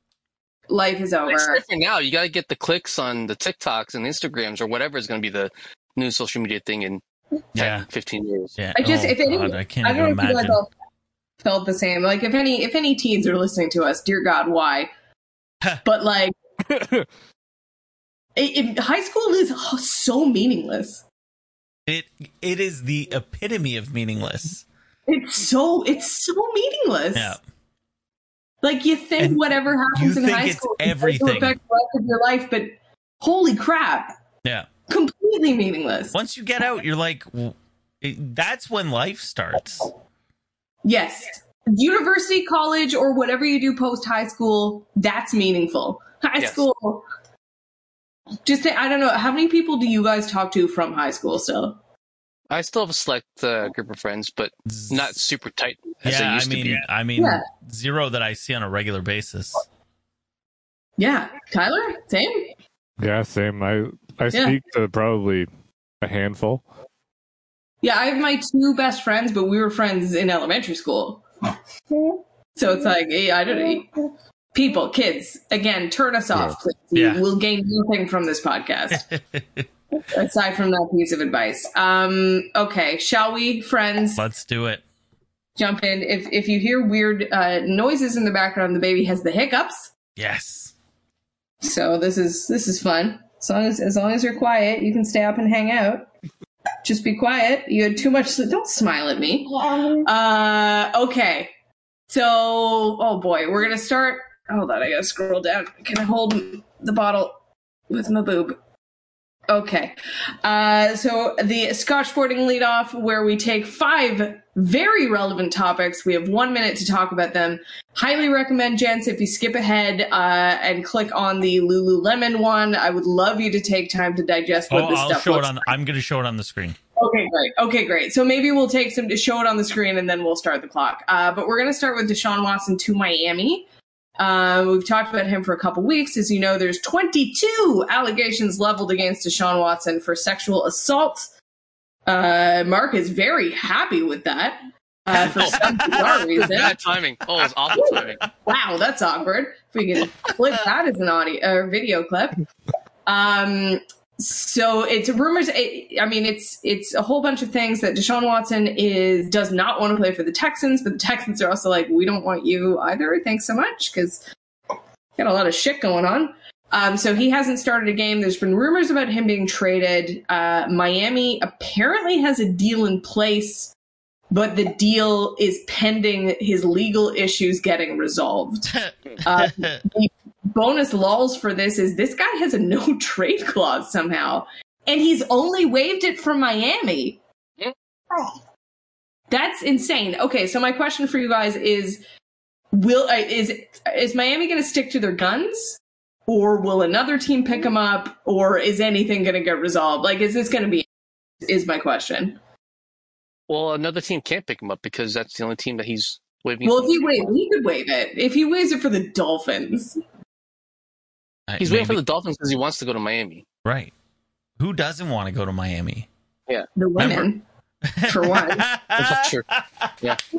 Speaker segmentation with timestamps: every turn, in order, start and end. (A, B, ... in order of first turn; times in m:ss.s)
0:00.7-0:01.6 A
0:01.3-0:07.0 B
0:07.6-0:07.9 C
0:07.6-0:08.5 B
0:08.6-0:10.6 C
0:08.8-0:10.7 A
0:11.4-0:14.9 A
0:15.8-0:16.3 A
0:16.7-0:17.1 D
0:18.4-0:21.0 A
0:21.9-0:24.6 C
0:25.1-0:27.4 A
0:27.2-0:27.4 C
0:28.6-0:34.1 A
0:29.2-0:31.6 C
0:34.9-0:36.2 A
0:36.1-0:39.9 C
0:40.8-0:47.1 A
0:48.4-0:51.8 A
0:52.5-0:56.8 B
0:54.7-0:55.1 C
0:56.0-0:59.6 C
0:57.2-0:57.4 A
1:01.0-1:02.5 A
1:03.0-1:05.5 D
1:04.3-1:04.6 A
1:06.0-1:06.6 D
1:07.8-1:11.2 A
1:12.6-1:13.9 A
1:14.5-1:19.1 A
1:17.0-1:17.2 C
1:19.0-1:19.7 C
1:20.1-1:24.2 A
1:24.2-1:24.8 C
1:25.6-1:29.9 A
1:30.2-1:30.7 C
1:31.6-1:36.1 A
1:36.8-1:41.5 A
1:42.1-1:47.3 A
1:47.9-1:48.6 A
1:49.5-2:05.7 A
2:04.7-2:06.8 C
2:07.0-2:13.7 A
2:14.2-2:21.3 A
2:22.1-2:26.8 A
2:25.1-2:28.3 B
2:25.5-2:26.1 C
2:27.7-2:32.4 A
2:33.1-2:44.2 A
2:45.2-2:53.7 A
2:54.3-3:07.2 A
2:58.7-2:59.8 C
3:09.3-3:12.0 A
3:12.7-3:20.9 A
3:21.4-3:22.4 A
3:23.5-3:27.3 B
3:26.6-3:30.0 A
3:31.5-3:32.0 C
3:31.6-3:33.4 B
3:33.6-3:33.9 C
3:34.6-3:36.1 C
3:36.8-3:37.4 A
3:37.0-3:37.3 C
3:37.9-3:40.0 C
3:38.1-3:38.7 A
3:39.0-3:39.5 B